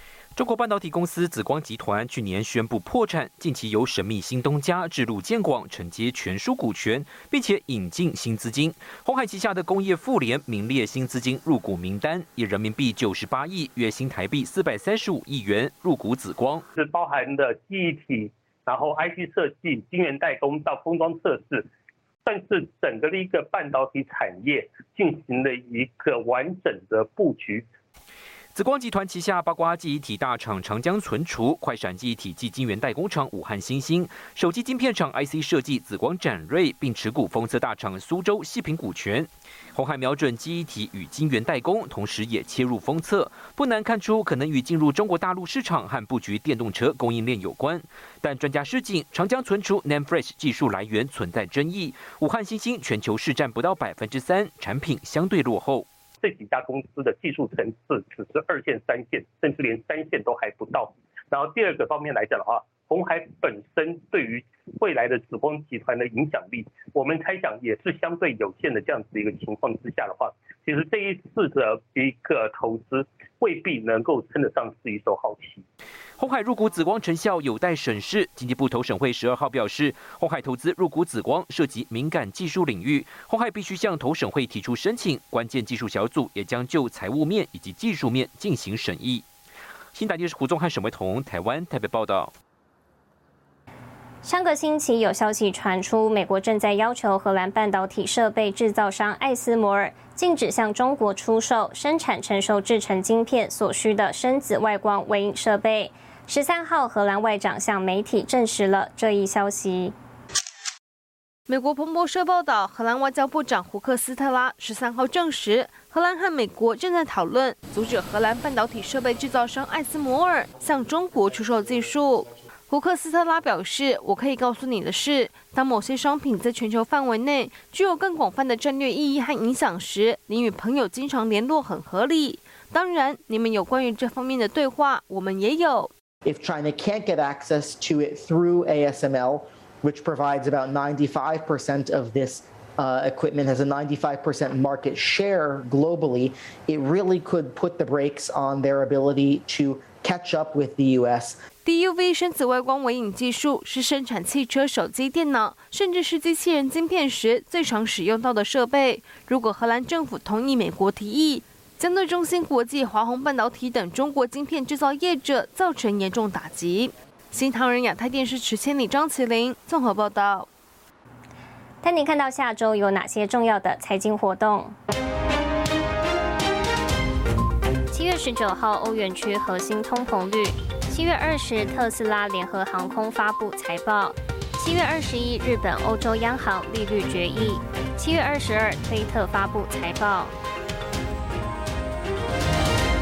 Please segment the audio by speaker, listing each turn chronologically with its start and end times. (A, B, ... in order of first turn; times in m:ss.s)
0:00.4-0:16.7 A
0:16.8-0:21.7 B
0:22.2-0:27.7 B
0:28.6-0:55.9 A
0:56.2-1:15.6 B
1:16.2-1:29.2 A
1:29.9-1:32.3 A
1:34.2-1:50.0 C
1:51.5-2:15.9 D
2:16.2-2:31.4 E
2:31.6-2:50.5 D
2:51.8-2:54.8 C
2:57.9-3:10.3 C